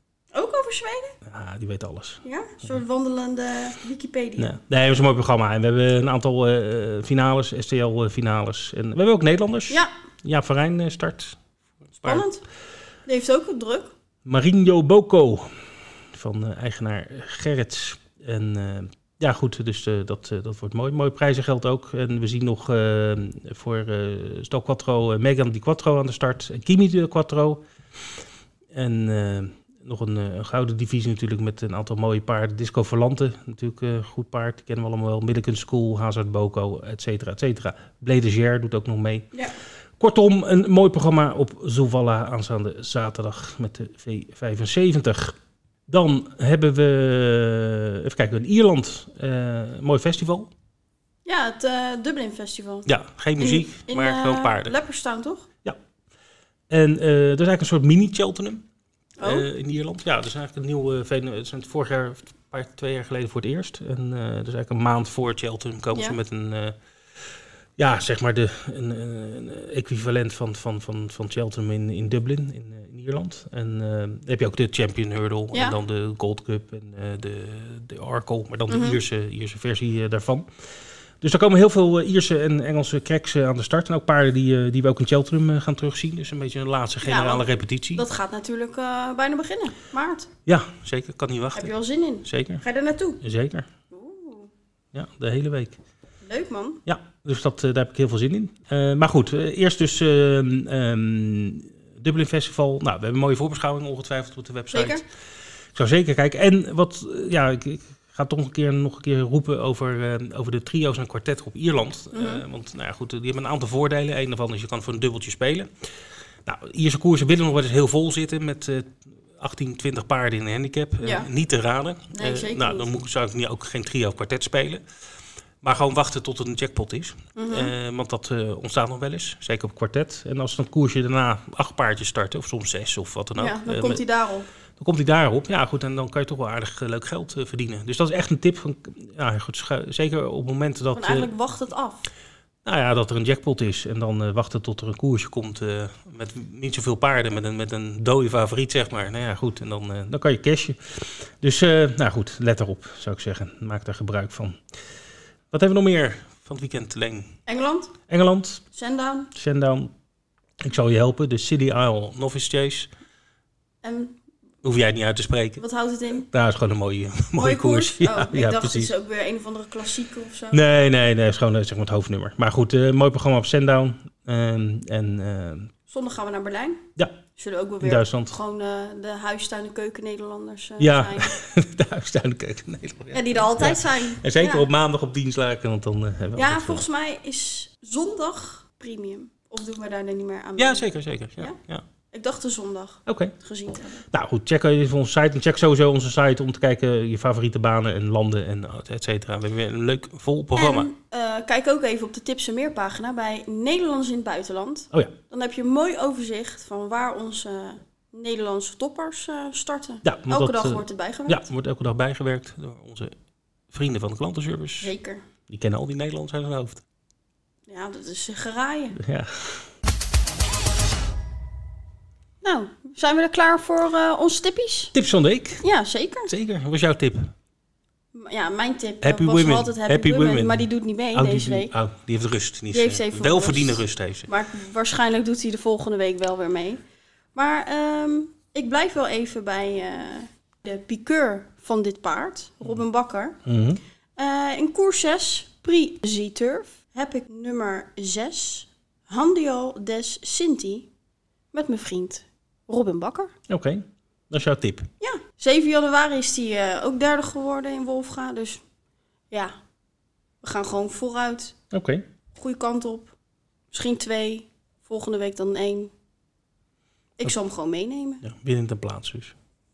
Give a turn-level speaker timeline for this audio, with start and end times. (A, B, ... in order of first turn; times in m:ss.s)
0:00.3-0:01.2 A
0:01.2-0:02.2 B
0:02.2-0:04.5 A
0:04.4-0:11.4 B
0:12.0-0:12.2 B
0:12.0-0:12.4 A
0:13.0-0:13.9 A
0:14.2-0:15.5 B
0:16.1-0:27.6 B
0:28.7-0:39.3 B
0:40.0-0:45.3 B
0:45.9-0:50.5 B
0:51.2-0:52.9 A
0:52.8-0:54.7 B
0:53.4-0:55.5 A
0:56.7-0:58.6 B
0:59.2-0:59.4 A
0:59.2-1:06.8 B
1:05.9-1:06.2 A
1:07.8-1:20.5 B
1:18.7-1:19.0 A
1:21.2-1:28.0 B
1:27.0-1:30.3 A
1:30.5-1:31.7 B
1:31.5-1:33.2 A
1:32.2-1:32.6 B
1:33.2-1:33.7 B
1:33.9-1:34.5 A
1:34.9-1:35.8 B
1:36.2-1:36.8 A
1:36.8-1:45.0 B
1:44.7-1:45.0 A
1:45.7-1:55.7 B
1:52.1-1:52.4 A
1:56.4-2:04.8 B
2:01.0-2:01.3 A
2:02.1-2:02.9 A
2:05.6-2:14.0 B
2:07.4-2:07.7 A
2:13.4-2:14.5 A
2:14.8-2:21.3 B
2:20.9-2:22.1 A
2:22.6-2:34.6 B
2:35.5-2:37.3 B
2:37.4-2:37.9 A
2:38.1-2:38.6 B
2:38.7-2:39.3 A
2:39.3-2:39.9 B
2:40.6-2:42.9 B
2:43.8-2:44.2 A
2:44.6-2:45.6 B
2:45.6-2:46.2 A
2:46.2-2:48.9 B
2:47.4-2:50.6 A
2:50.5-2:55.7 B
2:55.9-2:56.8 A
2:57.4-3:01.3 A
2:57.8-2:58.3 B
3:00.8-3:06.8 B
3:03.1-3:04.7 A
3:06.4-3:10.9 A
3:10.6-3:11.8 B
3:12.1-3:14.0 A
3:13.0-3:13.3 B
3:14.1-3:20.9 B
3:20.6-3:31.5 A
3:30.0-3:33.1 B
3:33.7-3:34.9 B
3:34.8-3:35.2 A
3:35.5-3:36.8 B
3:37.7-3:39.0 A
3:39.0-3:39.6 B
3:42.4-3:44.9 A
3:44.9-3:45.6 B
3:45.6-3:46.3 A
3:46.3-3:47.3 B
3:48.1-3:51.7 A
3:49.0-3:54.3 B
3:52.7-3:56.8 A
3:57.3-4:03.4 A
4:03.4-4:03.8 B
4:04.2-4:10.9 A
4:11.5-4:13.3 A
4:13.5-4:14.9 B
4:15.0-4:18.6 A
4:19.3-4:19.6 A
4:20.4-4:21.6 A
4:21.7-4:22.0 B
4:22.3-4:23.1 A
4:23.7-4:25.9 A
4:27.2-4:28.2 A
4:28.2-4:29.3 B